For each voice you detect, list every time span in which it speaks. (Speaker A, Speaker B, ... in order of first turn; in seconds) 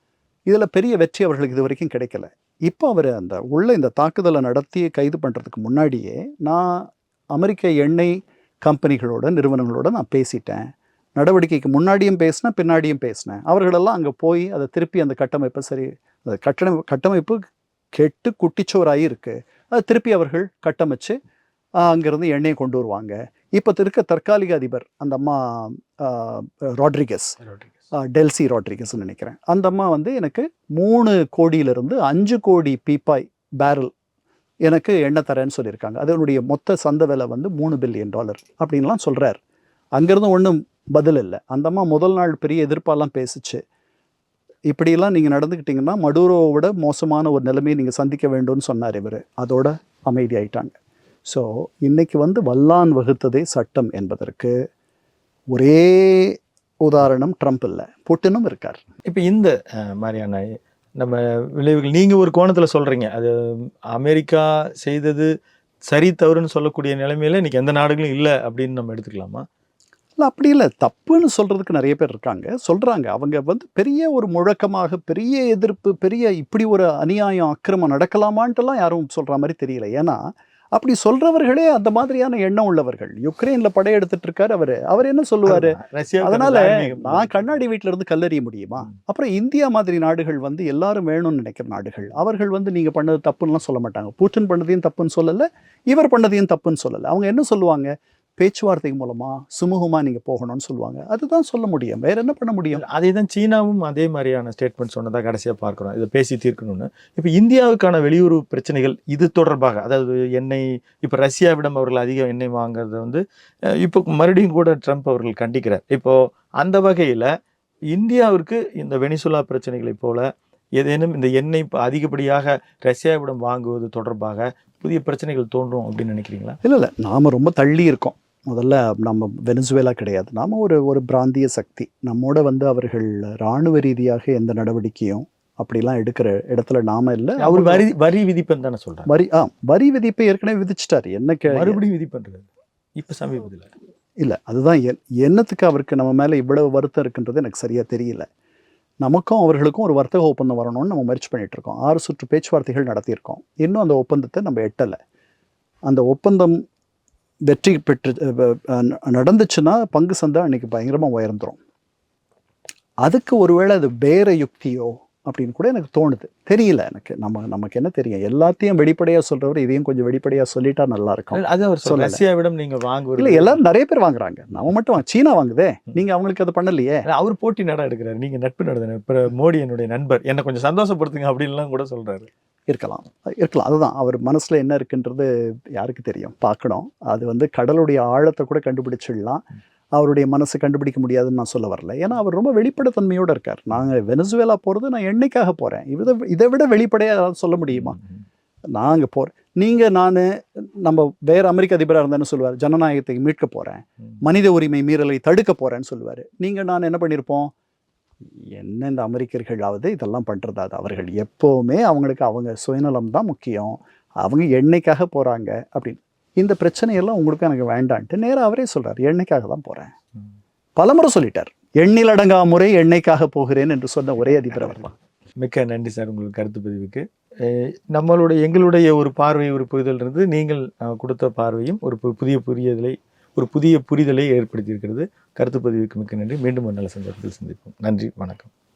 Speaker A: 0.5-17.4, 17.9-21.2, 21.8-27.4, 27.9-33.9, 34.6-39.4, 40.0-43.6, 44.7-54.5, 55.5-58.8, 70.2-80.2, 80.7-102.8, 126.6-137.8, 139.1-141.8, 144.2-148.3, 149.0-155.0, 155.9-156.6, 157.5-161.6, 163.0-172.2, 173.2-177.0, 182.7-189.4, 189.9-198.0, 198.7-207.5, 208.5-219.9, 220.8-224.9
Speaker B: 59.1-60.5, 61.0-65.3, 65.9-69.4, 85.4-87.5, 102.8-117.3, 117.9-120.2, 120.8-126.6, 137.4-139.1, 141.5-142.5, 143.0-143.7, 171.3-173.6, 177.1-182.3, 225.4-238.5